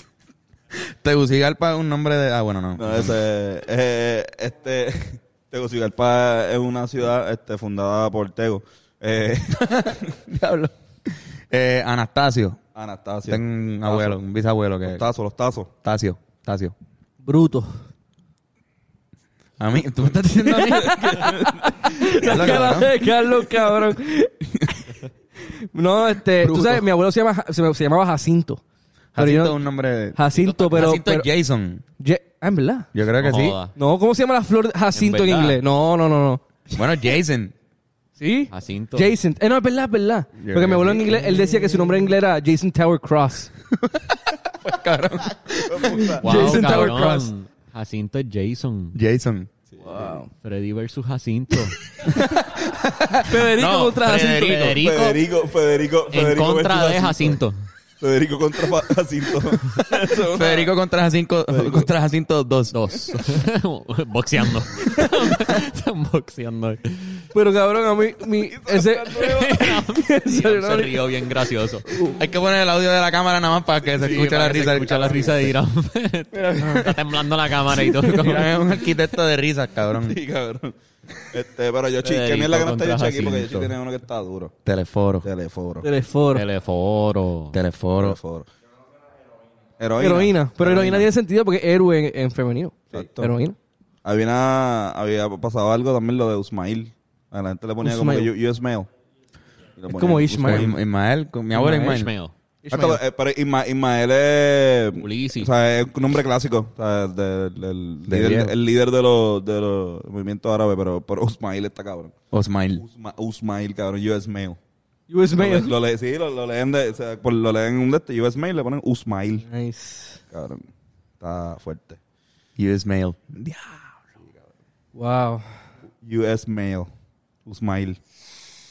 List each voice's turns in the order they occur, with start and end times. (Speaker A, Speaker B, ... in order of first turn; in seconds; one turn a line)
Speaker A: 0.7-3.1
Speaker B: 2.8-10.1
Speaker A: 9.6-12.6
Speaker B: 12.7-14.2
Speaker A: 13.3-15.0
Speaker B: 14.8-15.7
Speaker A: 15.8-16.7
Speaker C: 17.2-17.8
Speaker A: 19.6-22.9
Speaker C: 20.2-24.3
Speaker B: 21.1-21.6
Speaker C: 25.4-28.6
Speaker A: 26.4-26.8
Speaker A: 29.1-31.8
Speaker C: 29.2-29.6
Speaker C: 30.1-31.3
Speaker C: 32.0-32.9
Speaker A: 32.9-33.6
Speaker D: 33.2-33.7
Speaker C: 33.8-36.8
Speaker D: 34.9-35.6
Speaker A: 36.7-37.5
Speaker C: 38.2-43.5
Speaker D: 38.5-39.1
Speaker A: 40.4-41.4
Speaker A: 43.7-47.3
Speaker B: 45.7-46.2
Speaker C: 45.9-47.2
Speaker D: 46.2-49.0
Speaker A: 48.9-49.5
Speaker B: 49.7-50.0
Speaker C: 49.8-50.3
Speaker D: 50.4-52.0
Speaker A: 52.1-54.8
Speaker C: 53.1-54.7
Speaker D: 54.4-55.2
Speaker B: 54.8-57.4
Speaker D: 56.1-57.7
Speaker B: 58.0-60.7
Speaker A: 60.2-62.8
Speaker B: 61.5-61.9
Speaker D: 62.7-67.2
Speaker C: 67.3-71.1
Speaker B: 68.4-69.7
Speaker D: 69.1-72.0
Speaker C: 71.8-72.2
Speaker A: 72.2-75.5
Speaker D: 73.8-78.8
Speaker A: 76.3-77.0
Speaker C: 76.6-76.9
Speaker A: 78.0-80.2
Speaker B: 79.9-84.5
Speaker D: 82.0-83.7
Speaker A: 84.7-85.3
Speaker B: 85.2-85.9
Speaker C: 85.8-86.4
Speaker D: 86.3-87.6
Speaker A: 87.5-88.2
Speaker B: 88.0-88.5
Speaker B: 89.8-91.1
Speaker C: 90.0-93.5
Speaker B: 92.9-93.3
Speaker B: 94.0-98.9
Speaker C: 97.8-98.3
Speaker B: 99.8-100.8
Speaker C: 99.9-100.7
Speaker A: 100.4-102.1
Speaker D: 101.5-102.3
Speaker C: 101.5-102.0
Speaker C: 102.6-103.0
Speaker B: 102.7-112.1
Speaker D: 104.9-105.5
Speaker A: 108.1-108.5
Speaker A: 112.3-112.8
Speaker B: 112.7-114.6
Speaker C: 115.1-115.8
Speaker B: 115.4-119.5
Speaker C: 119.5-120.2
Speaker B: 120.3-120.7
Speaker B: 121.2-122.0
Speaker A: 122.6-123.3
Speaker B: 123.3-124.3
Speaker C: 124.9-125.6
Speaker B: 126.0-126.9
Speaker B: 127.4-128.0